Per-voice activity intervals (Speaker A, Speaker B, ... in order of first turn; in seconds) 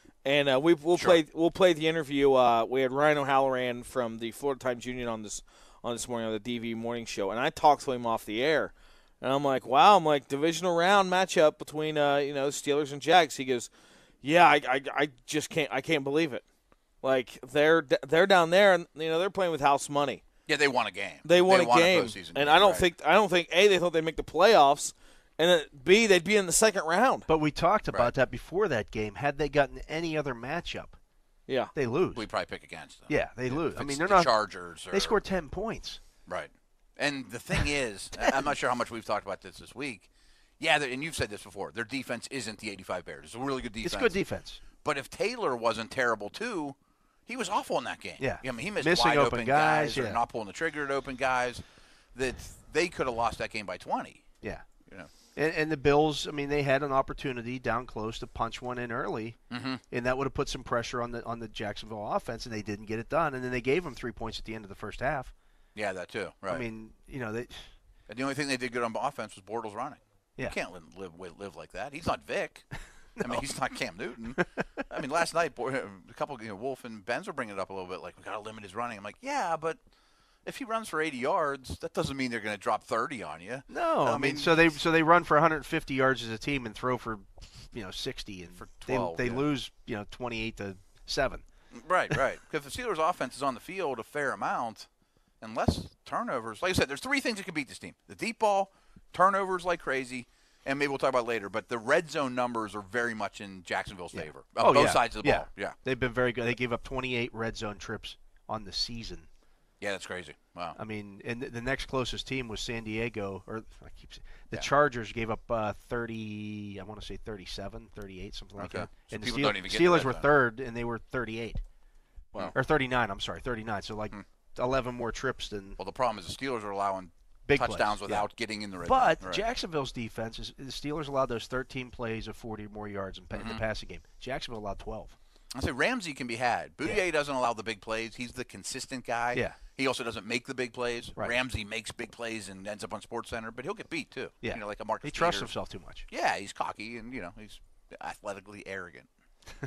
Speaker A: 0.2-13.7, 14.2-16.4, 17.0-20.2, 21.2-27.3, 31.5-31.7
Speaker B: 0.9-1.2, 20.5-22.9, 27.9-28.1, 32.1-35.2, 36.2-44.2, 44.8-54.2, 59.5-59.8, 65.7-66.7, 68.1-79.8, 80.4-84.8, 88.5-89.5, 91.7-94.9, 95.4-105.7, 109.8-110.8, 118.6-120.3, 125.8-129.4, 133.3-133.6, 135.5-145.5, 146.1-149.1
Speaker C: 27.3-31.0, 31.7-32.3, 33.1-36.0, 38.2-38.5, 43.8-44.6, 48.2-50.2, 55.3-65.3, 66.5-67.7, 73.2-73.5, 83.7-91.4, 104.1-109.3, 110.8-121.6, 122.4-125.8, 127.5-135.2, 139.3-139.6, 144.4-146.1